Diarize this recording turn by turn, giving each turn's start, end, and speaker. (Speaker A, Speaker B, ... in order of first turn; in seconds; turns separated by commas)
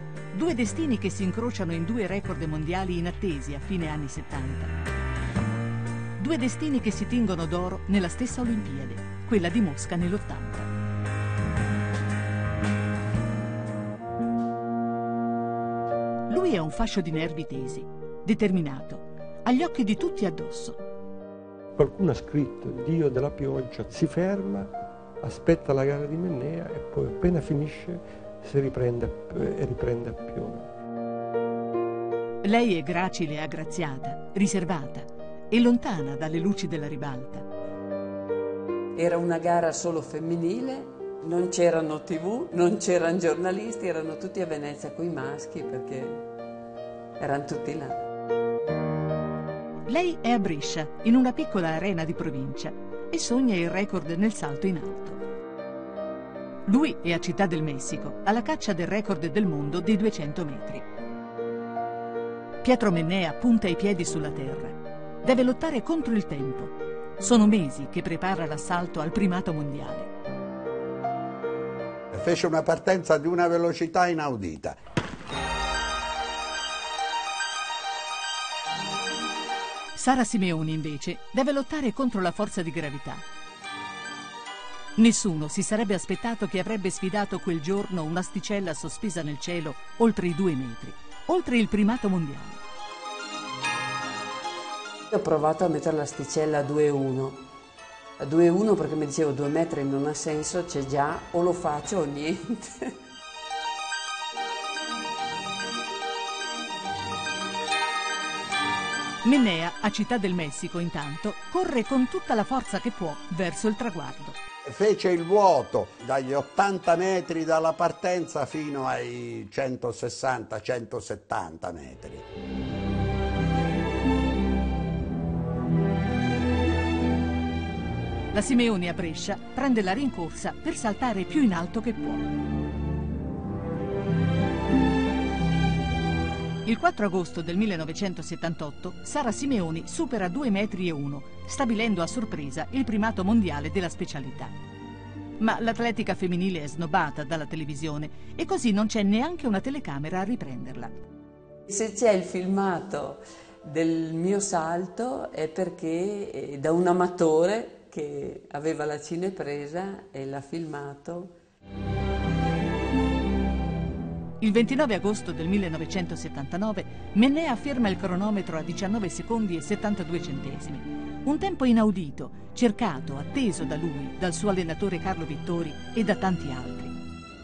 Speaker A: 0.3-4.7, Speaker A: 6.2-10.7, Speaker A: 16.3-20.8, Speaker B: 21.8-30.7, Speaker A: 32.4-37.5, Speaker C: 39.0-46.3, Speaker C: 47.2-48.0, Speaker A: 49.9-55.2, Speaker A: 56.7-60.9, Speaker A: 62.6-70.1, Speaker D: 72.1-74.8, Speaker A: 80.0-83.2, Speaker A: 85.0-92.6, Speaker C: 95.1-97.4, Speaker C: 98.2-102.9, Speaker A: 109.2-114.4, Speaker D: 114.7-122.2, Speaker A: 128.3-132.3, Speaker A: 136.7-144.5, Speaker A: 145.4-151.0, Speaker C: 151.7-161.3, Speaker A: 164.4-176.9